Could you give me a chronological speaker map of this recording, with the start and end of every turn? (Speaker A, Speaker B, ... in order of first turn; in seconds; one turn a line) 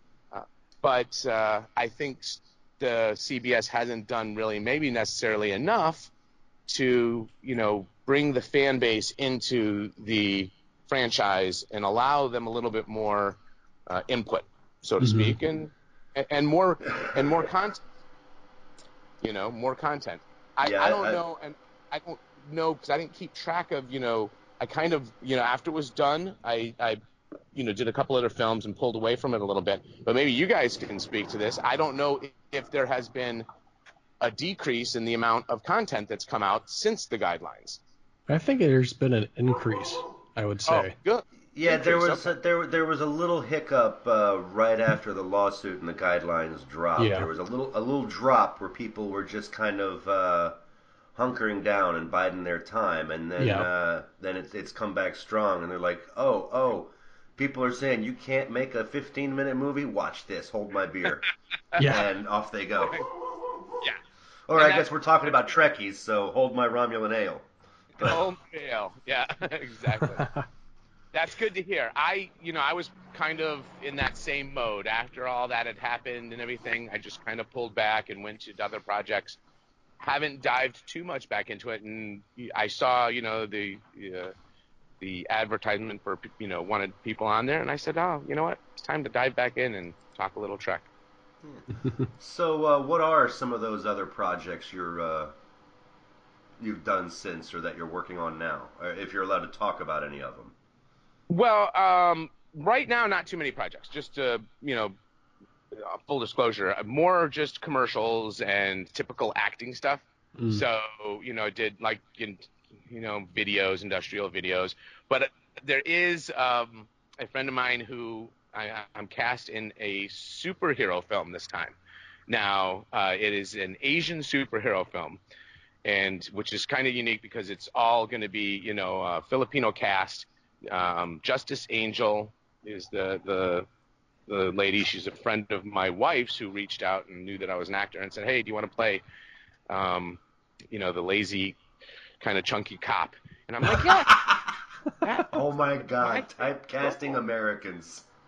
Speaker A: 0.3-6.1
Speaker A: 6.7-17.8
Speaker B: 15.0-15.4
Speaker A: 19.2-27.0
Speaker C: 20.6-21.2
Speaker A: 27.5-33.5
Speaker A: 34.2-37.8
Speaker B: 38.3-40.9
Speaker A: 40.6-42.3
Speaker C: 41.5-50.6
Speaker B: 47.0-47.3
Speaker C: 51.1-61.2
Speaker B: 53.4-53.6
Speaker B: 61.8-62.1
Speaker C: 61.8-63.0
Speaker A: 62.8-63.0
Speaker C: 64.5-68.2
Speaker A: 64.5-65.4
Speaker A: 68.0-70.3
Speaker A: 71.1-79.4
Speaker A: 80.0-84.3
Speaker A: 85.0-90.9
Speaker C: 91.4-95.3
Speaker C: 96.6-100.5
Speaker A: 101.3-104.9
Speaker A: 105.7-121.8
Speaker B: 110.3-110.6
Speaker A: 122.3-125.2
Speaker A: 125.8-133.7
Speaker A: 134.3-139.0
Speaker A: 139.7-140.2
Speaker A: 140.7-141.6
Speaker A: 142.2-144.4
Speaker A: 145.0-145.4
Speaker C: 145.3-148.1
Speaker A: 146.0-146.4